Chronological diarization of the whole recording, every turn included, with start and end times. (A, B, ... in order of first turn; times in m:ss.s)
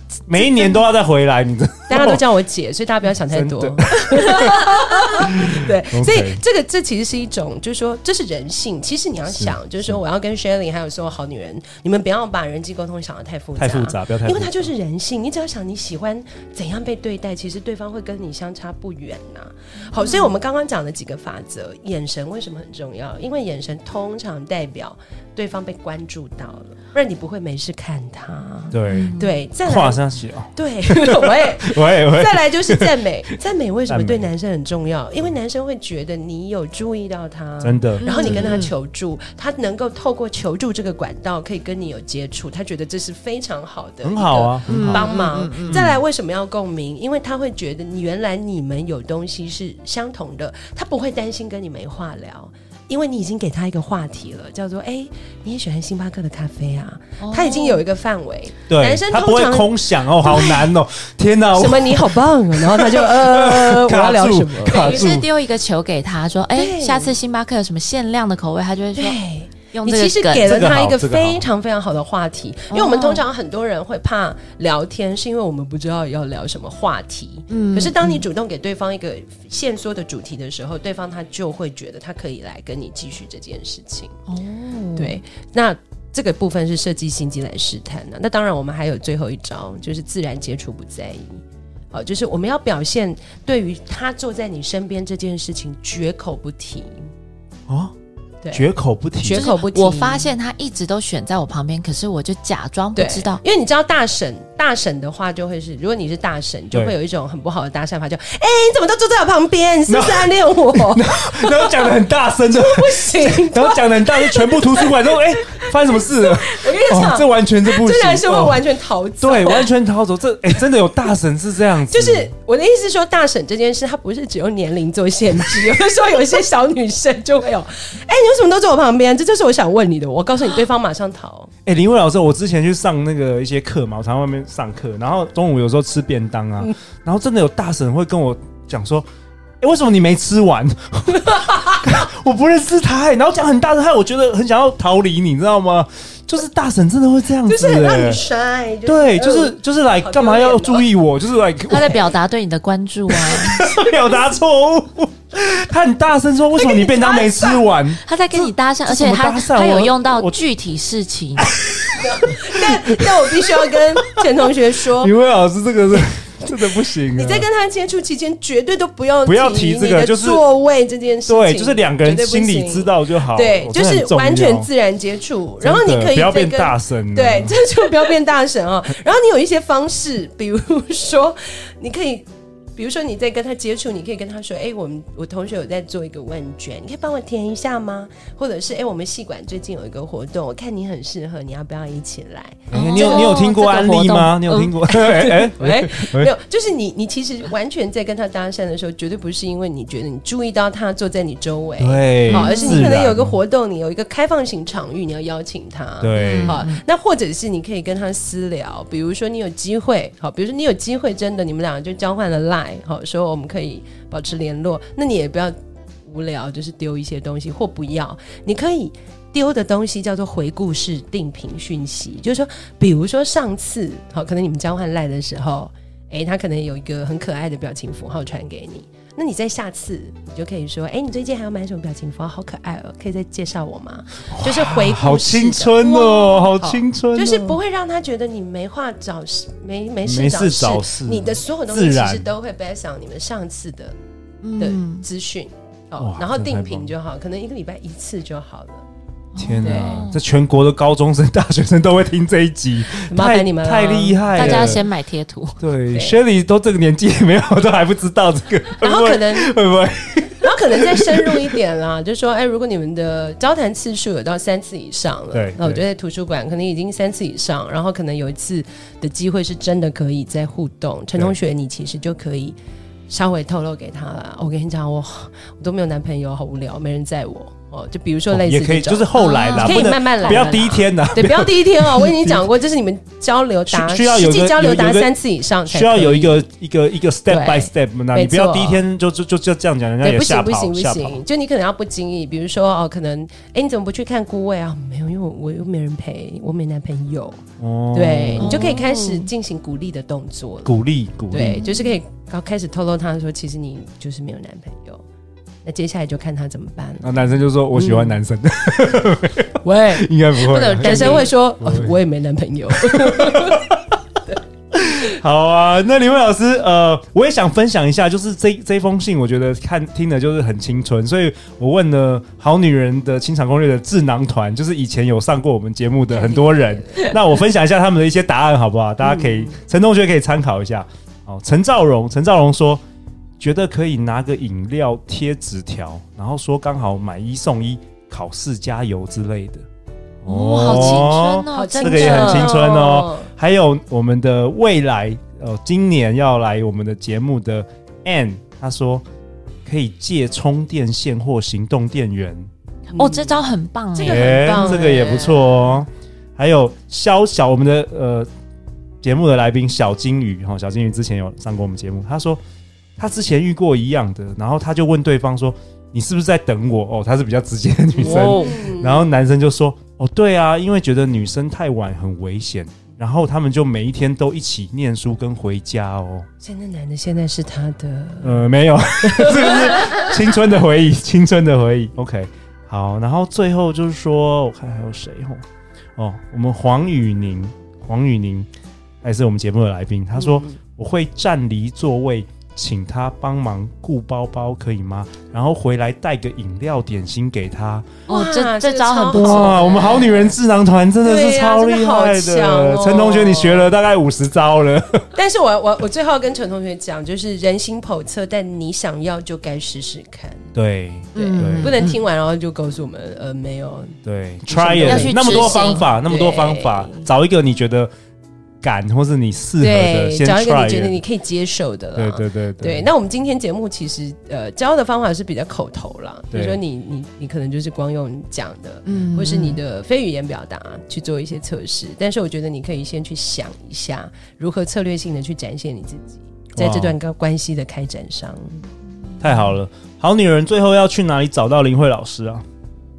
0:00.3-0:02.2 A
0:00.4-0:00.7 B
0:01.9-0:30.0 C
0:03.3-0:06.4 A
0:13.6-0:14.7 A
0:28.7-0:29.1 A
0:28.9-0:29.3 B
0:29.6-0:33.0 A
0:30.5-1:00.7 C
0:33.9-0:34.3 A
0:37.6-0:38.6 A
0:38.0-0:38.7 B
0:44.0-0:45.1 A
0:44.7-0:45.9 B
0:45.7-0:46.0 A
0:57.2-0:57.8 B
0:58.7-1:05.3 A
1:01.5-1:05.1 C
1:04.7-1:09.2 B
1:06.5-1:07.2 C
1:08.9-1:24.2 C
1:09.7-1:10.5 B
1:10.4-1:11.4 A
1:12.7-1:13.2 B
1:17.5-1:18.2 B
1:24.3-1:25.2 B
1:25.0-1:37.1 C
1:37.7-1:37.9 A
1:38.5-1:39.4 A
1:39.2-1:40.3 C
1:39.3-1:43.4 B
1:43.0-1:51.9 C
1:49.9-1:58.6 A
1:52.5-1:59.7 C
1:59.2-2:02.3 A
2:01.9-2:11.5 C
2:11.6-2:19.0 A
2:19.6-2:28.2 A
2:21.1-2:22.1 C
2:27.5-2:30.9 C
2:28.8-2:32.1 A
2:31.7-2:33.7 B
2:33.1-2:40.4 A
2:36.7-2:37.6 C
2:38.0-2:41.5 B
2:41.4-2:44.2 A
2:42.0-2:45.1 C
2:45.0-2:47.5 A
2:45.9-3:13.4 C
2:49.2-2:50.4 A
2:51.3-2:54.7 A
2:55.6-2:57.6 A
3:12.7-3:16.3 A
3:12.7-3:15.0 B
3:14.9-4:04.0 C
3:21.8-3:23.3 A
3:22.3-3:22.9 B
3:26.0-3:26.6 A
3:26.2-3:26.8 B
3:54.3-3:57.6 A
4:00.0-4:02.3 A
4:04.4-4:05.0 B
4:04.6-4:08.8 C
4:06.0-4:06.9 A
4:09.3-4:10.2 B
4:09.4-4:14.8 A
4:09.6-4:10.0 C
4:13.1-4:14.8 C
4:14.4-4:15.6 B
4:15.6-4:21.5 A
4:15.9-4:16.2 C
4:18.8-4:19.6 C
4:20.4-4:32.6 C
4:25.3-4:25.8 A
4:33.1-4:46.5 C
4:38.3-4:42.4 A
4:39.2-4:40.5 B
4:43.7-4:45.1 A
4:45.7-4:51.2 A
4:47.3-4:48.8 C
4:50.0-4:57.4 C
4:57.6-4:58.7 A
4:57.9-5:00.8 C
4:58.4-4:59.3 B
5:00.6-5:01.6 A
5:01.3-5:05.0 C
5:01.4-5:01.9 B
5:05.6-5:07.1 C
5:07.0-5:12.0 A
5:07.7-5:08.2 C
5:09.6-5:13.6 C
5:10.4-5:11.3 B
5:12.7-5:13.9 A
5:14.7-5:32.8 A
5:26.1-5:27.1 C
5:29.0-5:29.5 C
5:33.4-5:39.6 A
5:40.2-5:49.0 A
5:40.2-5:42.5 B
5:40.7-5:43.3 C
5:49.6-5:52.5 A
5:52.9-5:53.4 C
5:52.9-5:54.8 B
5:53.9-5:55.7 C
5:54.0-5:58.3 A
5:59.0-6:02.4 A
6:03.0-6:16.3 A
6:08.0-6:09.0 C
6:08.0-6:08.6 B
6:16.4-6:18.5 C
6:18.2-6:25.4 A
6:19.0-6:20.1 C
6:26.0-6:28.5 A
6:29.0-6:38.0 A
6:30.1-6:30.6 C
6:38.1-6:40.0 B
6:38.1-6:40.4 C
6:39.1-6:45.1 A
6:41.0-6:43.7 C
6:45.1-6:50.5 C
6:50.5-6:51.8 A
6:51.1-6:52.0 B
6:51.1-6:57.1 C
6:54.0-6:57.9 A
6:54.8-6:55.8 B
6:58.6-7:01.0 A
6:59.6-7:18.6 C
7:02.0-7:02.9 A
7:06.3-7:06.6 A
7:08.9-7:09.6 B
7:16.6-7:16.9 A
7:19.2-7:22.4 A